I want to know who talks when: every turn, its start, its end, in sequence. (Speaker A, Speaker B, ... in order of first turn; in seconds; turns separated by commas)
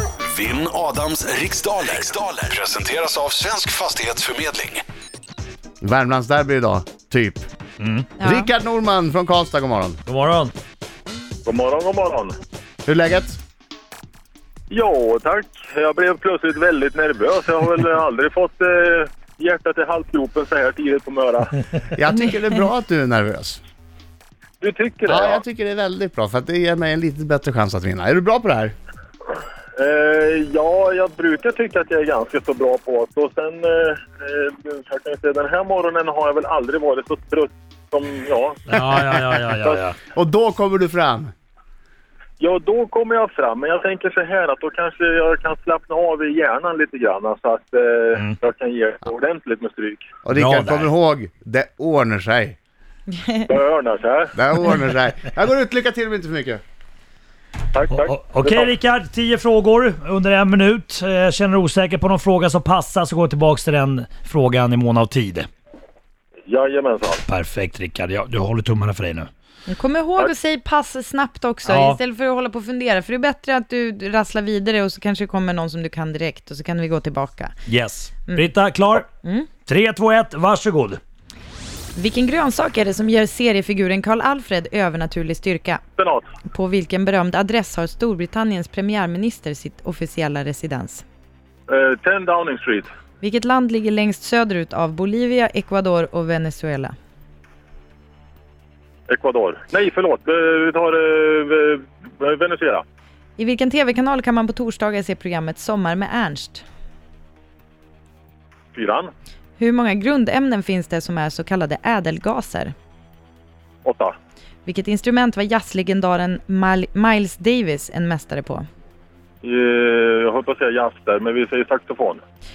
Speaker A: 0.2-4.8, Speaker B: 5.8-7.4, Speaker C: 7.8-8.1, Speaker D: 8.2-8.5, Speaker B: 8.2-10.0, Speaker C: 10.1-10.5, Speaker E: 11.4-12.4, Speaker B: 12.8-13.4, Speaker E: 14.7-21.6, Speaker B: 21.9-23.6, Speaker D: 22.1-22.4, Speaker E: 24.6-25.4, Speaker B: 25.0-28.7, Speaker E: 29.8-39.8, Speaker C: 38.7-40.0, Speaker B: 40.1-41.3, Speaker E: 42.4-50.0, Speaker B: 50.2-52.6, Speaker C: 50.3-50.9, Speaker D: 53.1-53.5, Speaker E: 53.5-54.3, Speaker B: 54.4-56.6, Speaker E: 57.7-58.7, Speaker C: 57.9-65.5, Speaker E: 66.5-67.2, Speaker C: 67.3-69.3, Speaker D: 69.7-77.5, Speaker C: 71.7-72.0, Speaker C: 77.7-79.1, Speaker D: 79.2-79.5, Speaker C: 79.7-81.0, Speaker D: 81.9-85.8, Speaker E: 86.0-86.3, Speaker D: 86.5-91.0, Speaker E: 91.7-92.9, Speaker D: 93.2-96.9, Speaker E: 99.1-102.8, Speaker D: 103.4-106.6, Speaker E: 108.7-109.1, Speaker D: 109.6-112.7, Speaker E: 113.8-114.1, Speaker D: 114.7-118.6, Speaker E: 119.4-122.2